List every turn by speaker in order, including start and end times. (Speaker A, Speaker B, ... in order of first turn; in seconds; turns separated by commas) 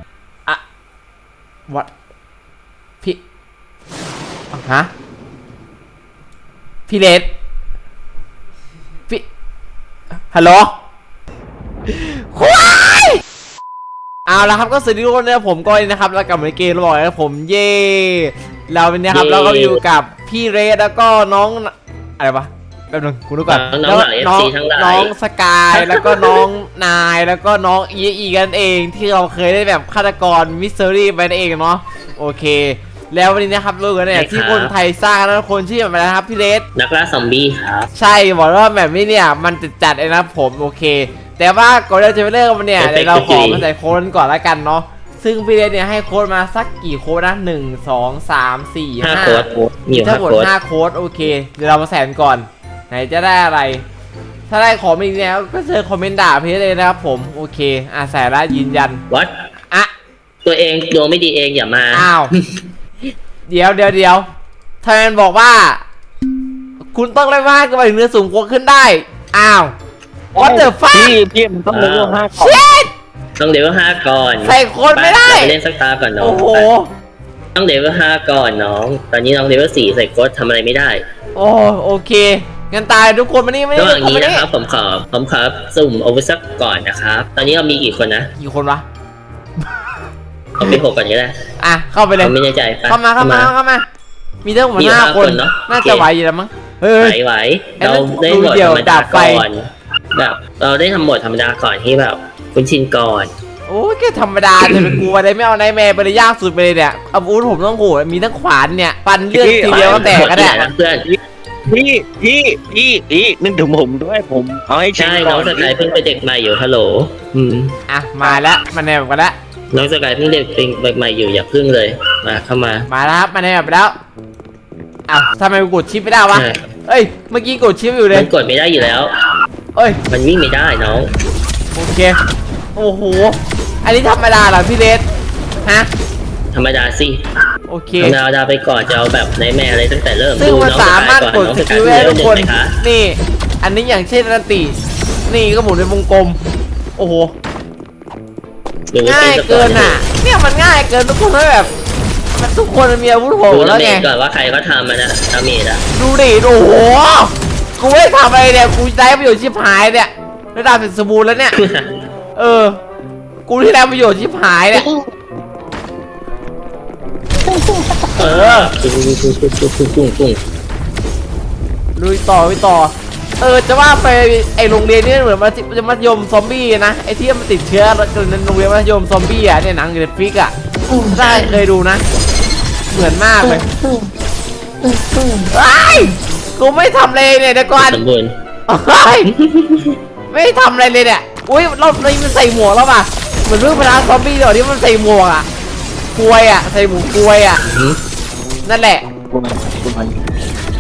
Speaker A: 4.5-4.9, Speaker A: 6.9-7.3, Speaker A: 10.3-10.7, Speaker A: 11.9-13.2, Speaker A: 14.3-36.6, Speaker B: 19.1-19.8, Speaker B: 23.5-25.1, Speaker B: 25.7-26.4, Speaker B: 34.1-34.7, Speaker B: 36.8-37.9, Speaker A: 38.0-53.8, Speaker B: 42.8-43.6, Speaker B: 49.0-50.5, Speaker A: 54.5-59.0, Speaker B: 60.4-62.5, Speaker A: 61.9-62.3, Speaker A: 63.5-64.3, Speaker A: 64.8-65.8, Speaker A: 66.9-69.7, Speaker C: 70.3-72.6, Speaker A: 70.4-71.2, Speaker B: 71.7-72.2, Speaker A: 72.4-72.9, Speaker B: 73.4-76.7, Speaker A: 74.4-75.5, Speaker A: 76.2-76.9, Speaker B: 77.5-81.0, Speaker A: 81.4-84.5, Speaker B: 83.8-88.3, Speaker A: 88.4-88.8, Speaker B: 90.6-91.3, Speaker A: 91.6-92.3, Speaker B: 92.2-93.5, Speaker A: 92.9-93.8, Speaker A: 94.5-97.2, Speaker B: 94.8-96.1, Speaker B: 97.0-103.3, Speaker A: 97.8-99.5, Speaker A: 103.7-110.6, Speaker B: 104.7-104.9, Speaker C: 109.3-115.8, Speaker B: 109.7-111.1, Speaker B: 115.0-117.8, Speaker A: 117.9-119.3, Speaker B: 119.7-122.9, Speaker A: 122.9-124.0, Speaker A: 125.1-128.3, Speaker B: 126.3-126.7, Speaker B: 128.1-129.1, Speaker B: 130.1-131.1, Speaker A: 131.8-132.2, Speaker A: 132.8-135.0, Speaker B: 136.5-137.3, Speaker A: 137.7-138.2, Speaker B: 138.0-142.8, Speaker A: 140.4-144.8, Speaker A: 145.3-146.4, Speaker A: 147.0-147.3, Speaker B: 148.9-150.0, Speaker A: 149.1-151.7, Speaker A: 152.3-154.1, Speaker B: 153.5-155.8, Speaker A: 155.9-161.6, Speaker B: 161.6-161.9, Speaker A: 162.4-162.8, Speaker A: 163.5-164.9, Speaker A: 168.2-168.7, Speaker B: 168.2-170.4, Speaker A: 172.0-182.0, Speaker B: 181.2-181.5, Speaker A: 182.9-183.7, Speaker A: 185.4-188.0, Speaker B: 187.8-188.3, Speaker A: 188.7-189.3, Speaker B: 189.3-190.0, Speaker A: 190.3-195.5, Speaker A: 196.2-197.6, Speaker B: 197.6-198.0, Speaker A: 198.7-199.1, Speaker C: 199.3-200.2